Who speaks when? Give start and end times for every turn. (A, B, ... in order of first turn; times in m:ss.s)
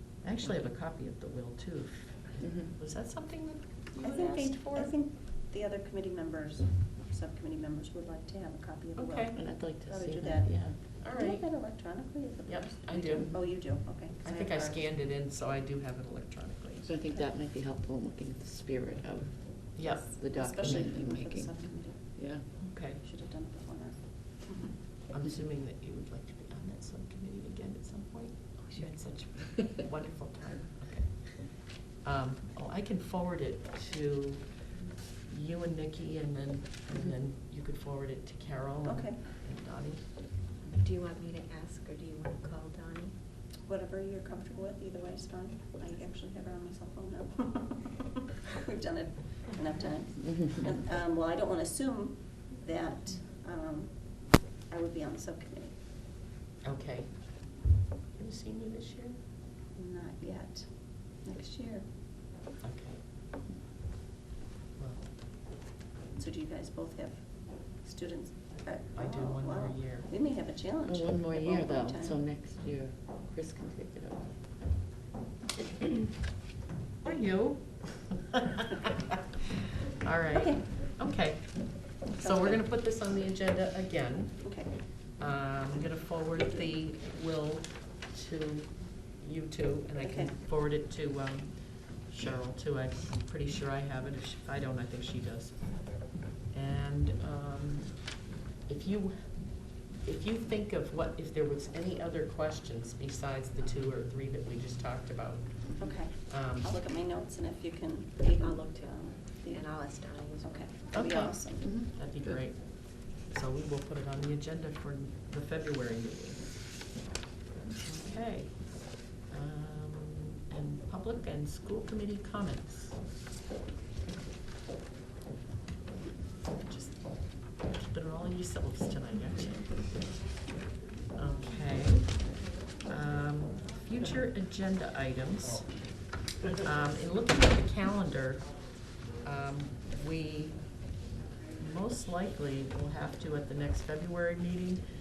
0:00.2-0:05.0 A
0:02.4-0:02.7 B
0:04.0-0:14.8 C
0:09.0-0:09.4 A
0:09.3-0:10.8 B
0:11.0-0:13.6 A
0:14.2-0:16.9 A
0:16.8-0:22.4 B
0:19.8-0:20.2 A
0:20.2-0:24.7 C
0:22.6-0:23.0 A
0:25.1-0:40.3 A
0:28.6-0:29.6 D
0:38.8-0:39.2 C
0:40.7-0:43.2 D
0:43.6-0:55.8 C
0:56.6-0:59.2 A
0:59.7-1:01.9 C
1:02.6-1:03.0 A
1:04.8-1:05.1 A
1:06.1-1:12.2 C
1:08.9-1:10.1 A
1:10.8-1:14.3 B
1:17.0-1:18.4 A
1:20.0-1:46.7 A
1:20.3-1:20.6 C
1:22.2-1:22.6 C
1:24.4-1:24.7 C
1:30.0-1:30.4 C
1:45.8-1:49.7 C
1:48.4-1:50.8 D
1:50.4-1:51.7 C
1:50.9-1:56.7 A
1:51.6-1:52.4 B
1:57.8-2:03.0 A
2:06.5-2:10.1 A
2:11.1-2:20.9 A
2:21.6-2:24.8 A